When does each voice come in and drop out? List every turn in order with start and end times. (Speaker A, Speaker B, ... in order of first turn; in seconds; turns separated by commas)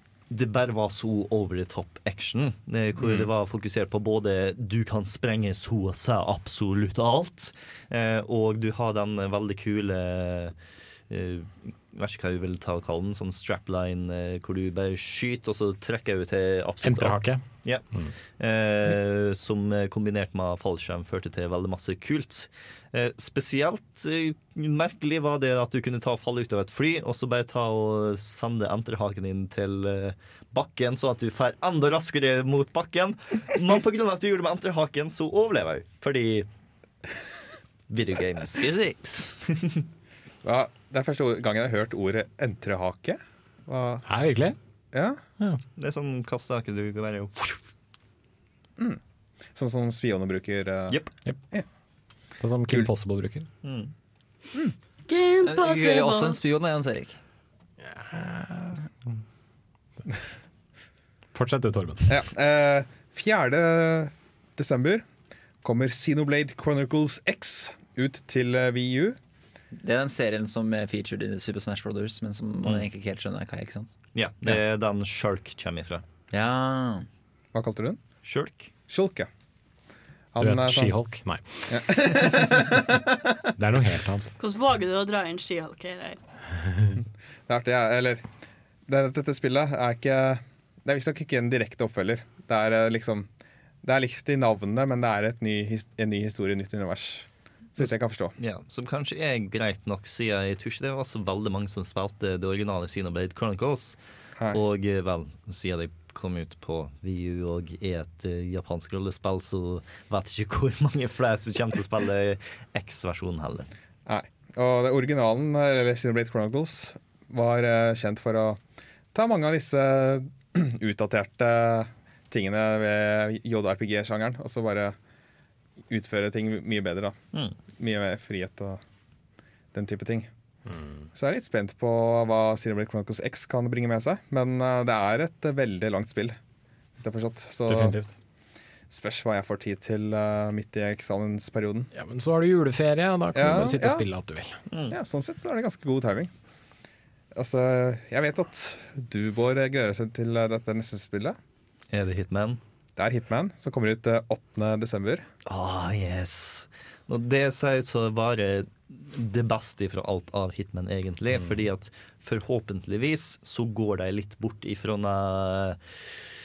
Speaker A: 0.3-10.6, Speaker A: 11.1-17.9, Speaker B: 16.8-18.1, Speaker A: 18.4-36.5, Speaker A: 37.9-38.8, Speaker C: 38.6-39.4, Speaker D: 40.4-44.0, Speaker B: 44.1-44.6, Speaker D: 44.9-45.2, Speaker A: 45.8-47.6, Speaker D: 49.6-51.0, Speaker B: 52.4-53.5, Speaker A: 53.6-53.9, Speaker E: 55.1-56.4, Speaker C: 55.4-57.2, Speaker B: 57.9-58.9, Speaker B: 61.3-62.1, Speaker D: 62.1-65.0, Speaker D: 65.6-69.2, Speaker C: 69.8-74.0, Speaker A: 74.1-76.0, Speaker C: 76.3-77.1, Speaker D: 77.5-78.0, Speaker A: 78.2-78.7, Speaker D: 78.9-79.3, Speaker D: 80.3-81.0, Speaker B: 80.4-81.8, Speaker D: 81.7-83.0, Speaker B: 83.6-84.3, Speaker E: 84.4-86.2, Speaker B: 86.6-87.0, Speaker D: 87.5-88.2, Speaker D: 88.9-93.3, Speaker D: 93.8-98.3, Speaker A: 97.8-104.0, Speaker A: 104.5-113.7, Speaker D: 114.1-118.6, Speaker D: 119.1-125.0, Speaker D: 125.9-127.2, Speaker D: 127.8-128.8, Speaker D: 129.7-130.3, Speaker B: 130.7-131.1, Speaker D: 131.2-136.4, Speaker D: 137.0-137.9, Speaker B: 137.7-138.1, Speaker D: 138.9-141.9, Speaker B: 141.9-144.6, Speaker D: 143.3-144.1, Speaker A: 144.7-145.0, Speaker D: 144.9-146.3, Speaker D: 147.3-151.4, Speaker A: 151.9-152.6, Speaker D: 153.0-155.2, Speaker A: 155.4-165.8